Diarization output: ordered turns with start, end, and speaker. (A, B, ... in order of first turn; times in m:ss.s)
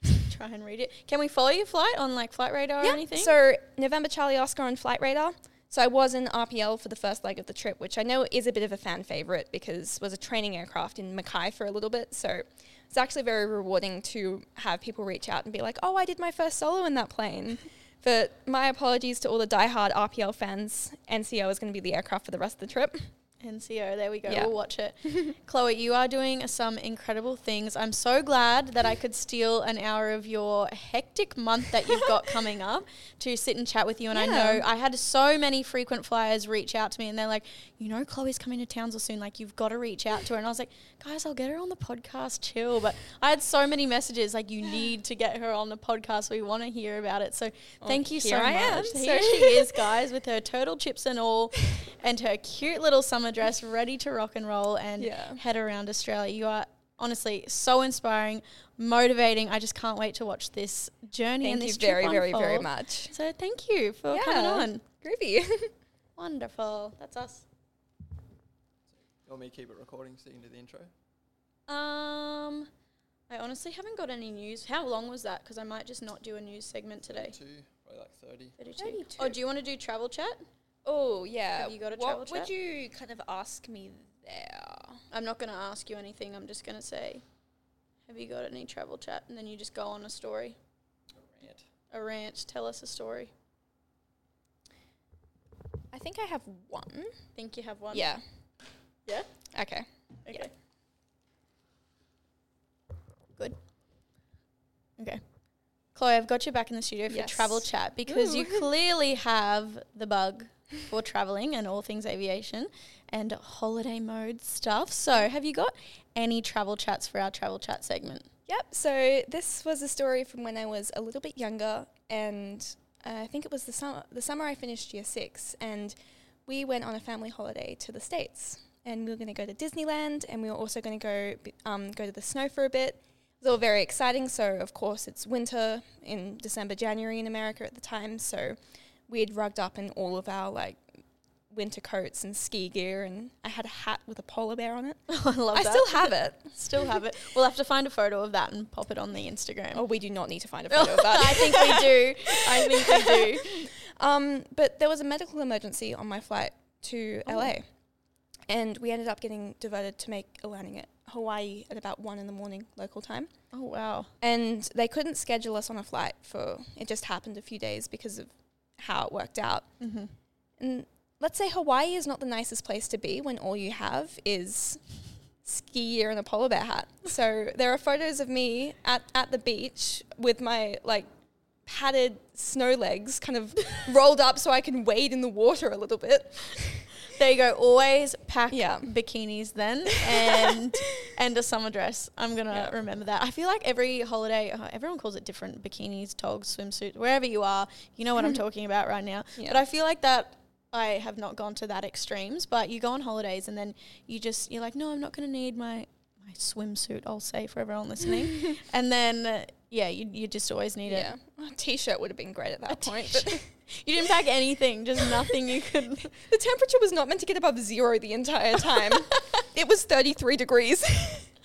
0:00.3-0:03.3 A
0:02.8-0:23.1 B
0:23.4-1:04.8 A
0:25.1-0:25.3 B
0:34.1-0:34.6 B
0:47.8-0:49.9 B
0:55.0-0:55.4 B
1:01.4-1:03.2 B
1:04.1-1:05.7 B
1:06.2-1:07.4 A
1:09.2-1:10.9 C
1:11.7-1:12.7 A
1:13.3-1:17.4 A
1:17.0-1:18.6 C
1:18.6-1:20.4 A
1:18.8-1:19.4 B
1:20.8-1:25.0 B
1:21.6-1:22.5 A
1:25.1-1:27.2 A
1:28.1-1:30.6 A
1:31.4-1:31.6 C
1:31.9-1:33.3 A
1:35.9-1:37.2 B
1:37.4-1:38.1 A
1:37.9-1:38.2 B
1:39.5-1:40.4 B
1:40.3-1:40.5 A
1:45.9-1:58.3 A
1:47.1-1:48.7 B
1:58.5-2:20.8 B
2:21.5-2:27.0 B
2:25.1-2:29.8 A
2:29.7-2:37.7 B
2:30.7-2:33.7 A
2:37.3-2:37.5 A
2:38.5-2:43.3 B
2:43.5-2:44.1 A
2:44.2-2:49.7 B
2:49.8-2:50.1 A
2:50.6-2:54.9 B
2:55.4-3:01.1 B
3:01.7-3:07.0 B
3:07.0-3:31.1 A
3:08.5-3:08.9 B
3:10.1-3:10.6 B
3:30.9-3:33.5 B
3:32.7-3:36.1 A
3:36.2-3:41.3 B